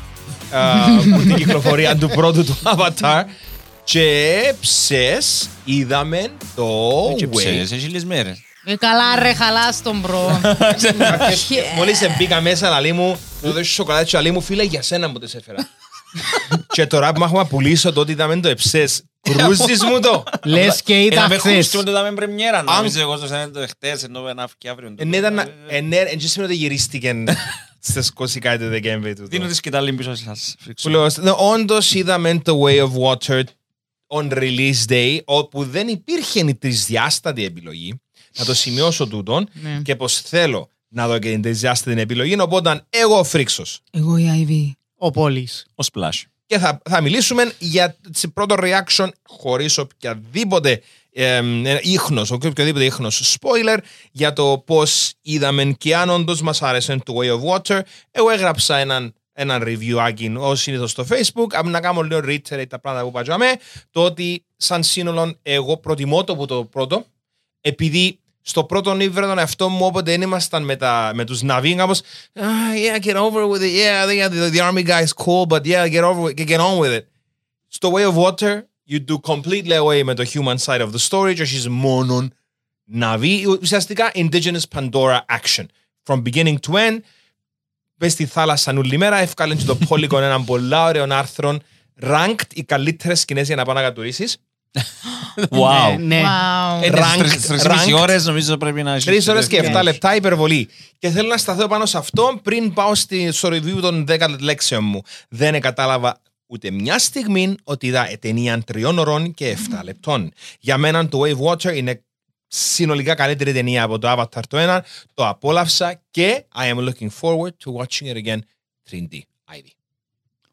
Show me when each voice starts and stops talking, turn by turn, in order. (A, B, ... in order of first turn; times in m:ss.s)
0:00.5-0:03.3 A
0:00.7-0:01.5 B
0:03.9-0:07.6 A
0:07.0-0:08.4 C
0:08.6-0:12.2 B
0:10.3-0:11.4 C
0:10.7-0:15.7 A
0:16.6-0:20.4 A
0:19.3-0:25.8 C
0:20.4-0:21.8 D
0:22.7-0:23.0 A
0:25.0-0:29.5 A
0:29.3-0:31.0 C
0:30.8-0:33.5 A
0:34.1-0:43.8 A
0:39.6-0:39.9 B
0:43.9-0:44.8 B
0:45.0-0:45.6 D
0:45.8-0:46.3 C
0:46.5-1:07.1 A
1:07.6-1:17.1 A
1:17.7-1:22.3 A
1:22.9-1:27.0 A
1:28.0-1:34.4 A
1:35.4-1:36.0 C
1:35.5-1:36.4 D
1:36.1-1:36.9 B
1:36.8-1:40.0 C
1:36.8-1:38.2 A
1:39.0-1:59.7 A
1:39.5-1:39.8 D